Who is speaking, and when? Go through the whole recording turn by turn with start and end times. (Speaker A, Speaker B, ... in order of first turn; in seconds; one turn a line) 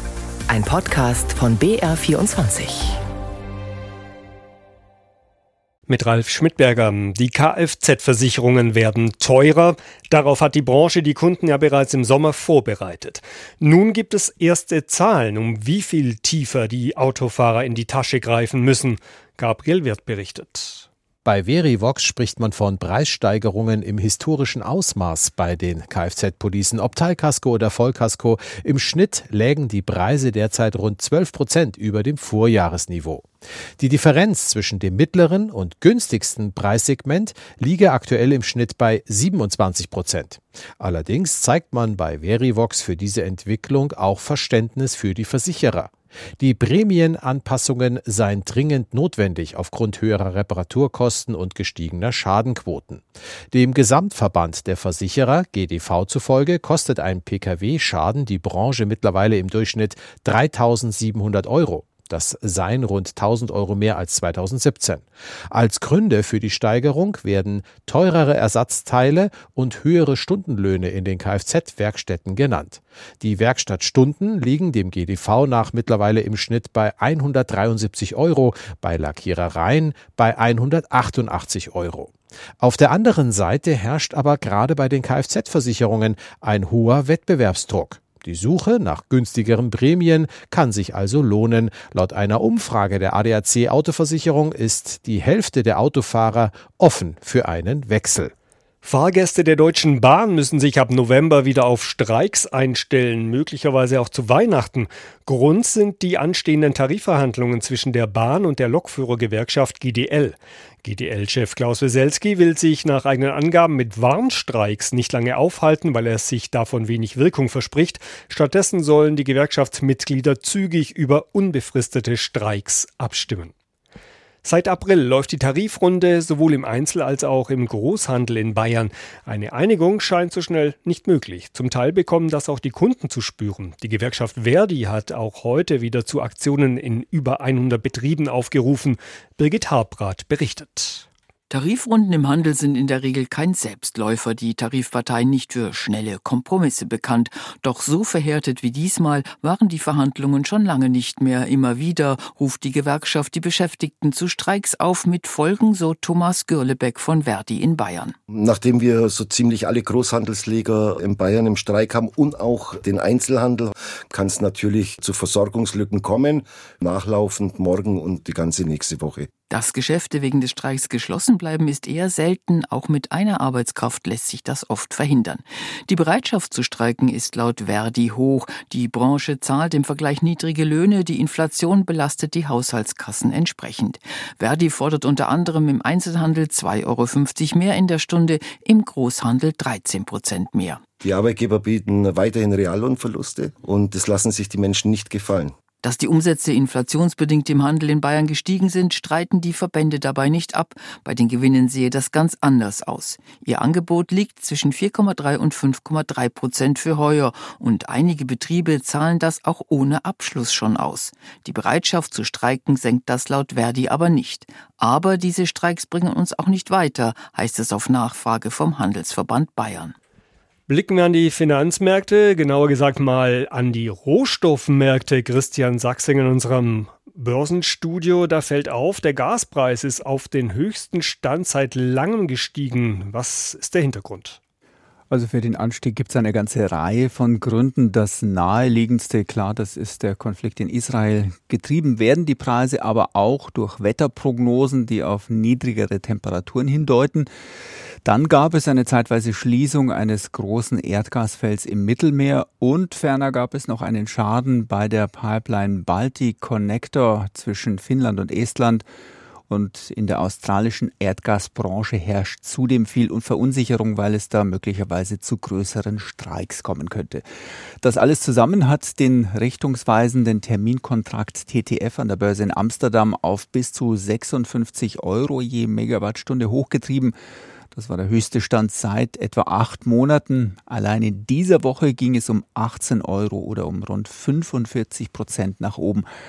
Speaker A: 0.5-3.0
Speaker B: 5.9-20.9
Speaker C: 21.2-33.2
Speaker C: 33.8-98.3
Speaker B: 98.8-123.5
Speaker B: 124.4-141.1
Speaker D: 141.5-158.2
Speaker E: 158.3-169.3
Speaker D: 169.5-190.8
Speaker E: 191.0-195.5
Speaker D: 195.8-219.9
Speaker B: 220.7-234.4
Speaker F: 235.1-247.3
Speaker F: 248.0-258.8
Speaker F: 259.5-267.2
Speaker F: 267.8-277.1
Speaker F: 277.7-286.1